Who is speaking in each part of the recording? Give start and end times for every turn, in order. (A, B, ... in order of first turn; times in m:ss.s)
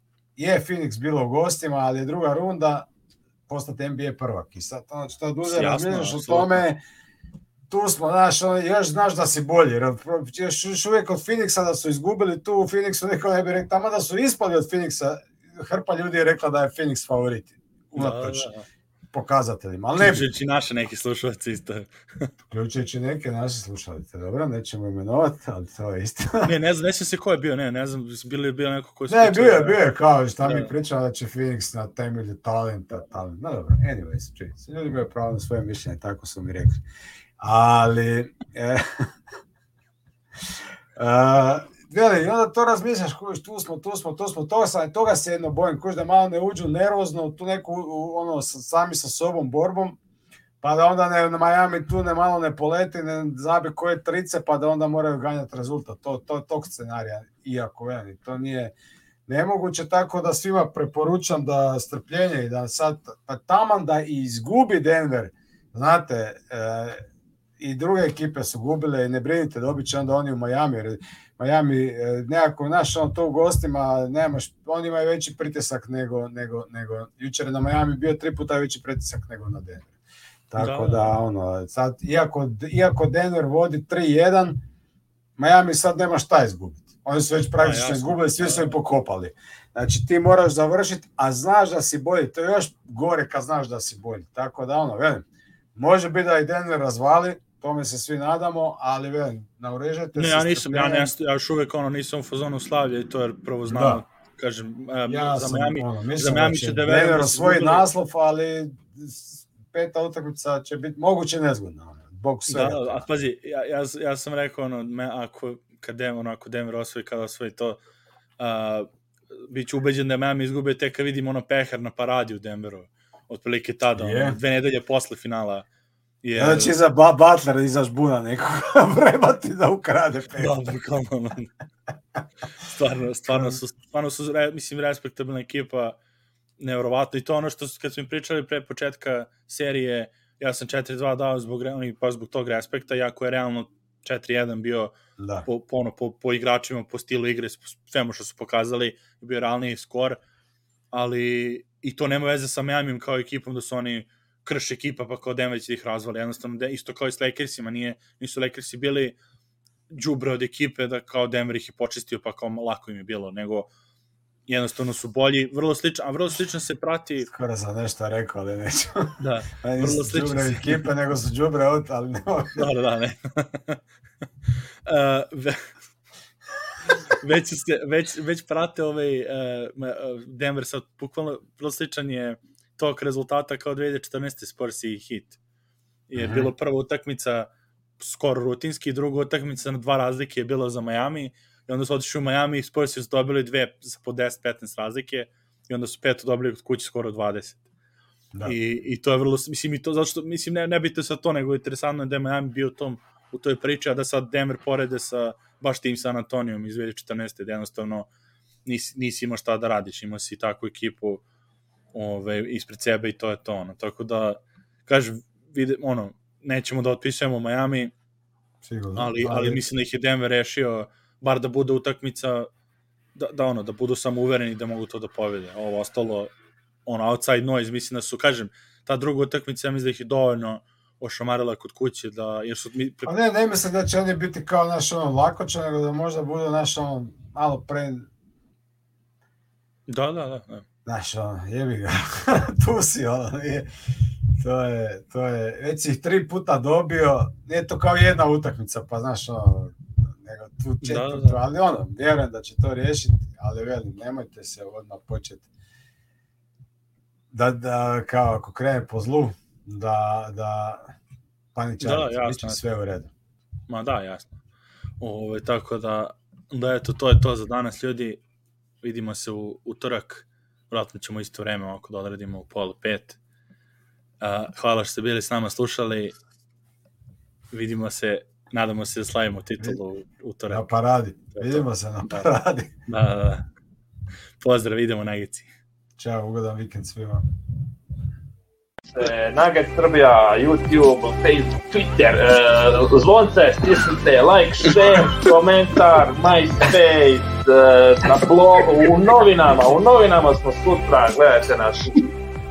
0:00.4-0:02.9 A
0:03.5-0:06.8 A
0:05.5-0:06.6 B
0:07.7-0:18.5 A
0:18.0-0:18.7 B
0:19.1-0:20.3 A
0:20.0-0:22.3 B
0:22.5-0:26.5 A
0:26.4-0:29.8 B
0:29.1-0:36.8 A
0:30.4-0:30.7 B
0:37.4-0:39.1 A
0:41.0-0:50.0 A
0:50.6-0:58.7 A
0:59.3-1:07.1 A
1:07.6-1:19.9 A
1:20.5-1:24.6 A
1:20.6-1:21.2 B
1:25.4-1:41.1 A
1:27.6-1:28.8 B
1:40.2-1:47.8 B
1:43.7-1:44.0 A
1:45.1-1:53.0 A
1:52.5-1:57.8 B
1:58.4-1:58.9 B
1:59.5-2:05.7 B
2:04.0-2:04.4 A
2:06.2-2:06.8 B
2:06.4-2:10.6 A
2:10.4-2:11.5 B
2:12.6-2:16.0 B
2:13.3-2:13.6 A
2:16.6-2:30.2 B
2:25.2-2:25.5 A
2:30.9-2:39.2 B
2:39.9-2:43.7 B
2:44.5-2:47.3 B
2:47.2-2:52.6 A
2:49.2-2:50.9 B
2:52.6-2:53.8 B
2:54.9-2:55.7 B
2:56.9-3:05.4 B
3:06.1-3:17.6 B
3:06.2-3:06.5 A
3:18.4-3:28.1 B
3:28.6-3:31.2 B
3:31.9-3:37.9 B
3:38.6-3:39.6 A
3:39.0-3:42.5 B
3:43.2-3:46.3 B
3:46.9-3:53.1 B
3:53.1-3:58.1 A
3:59.9-4:00.6 B
4:00.9-4:03.7 A
4:04.4-4:15.4 A
4:10.8-4:11.4 B
4:17.3-4:20.9 A
4:21.6-4:23.1 A
4:21.8-4:22.6 B
4:23.7-4:24.4 B
4:25.0-4:28.2 B
4:28.8-4:33.2 B
4:34.2-4:36.2 B
4:37.5-4:40.7 B
4:40.5-4:42.7 A
4:41.3-4:41.7 B
4:42.9-4:43.5 B
4:44.4-4:45.5 B
4:46.0-4:47.2 A
4:48.9-5:02.1 C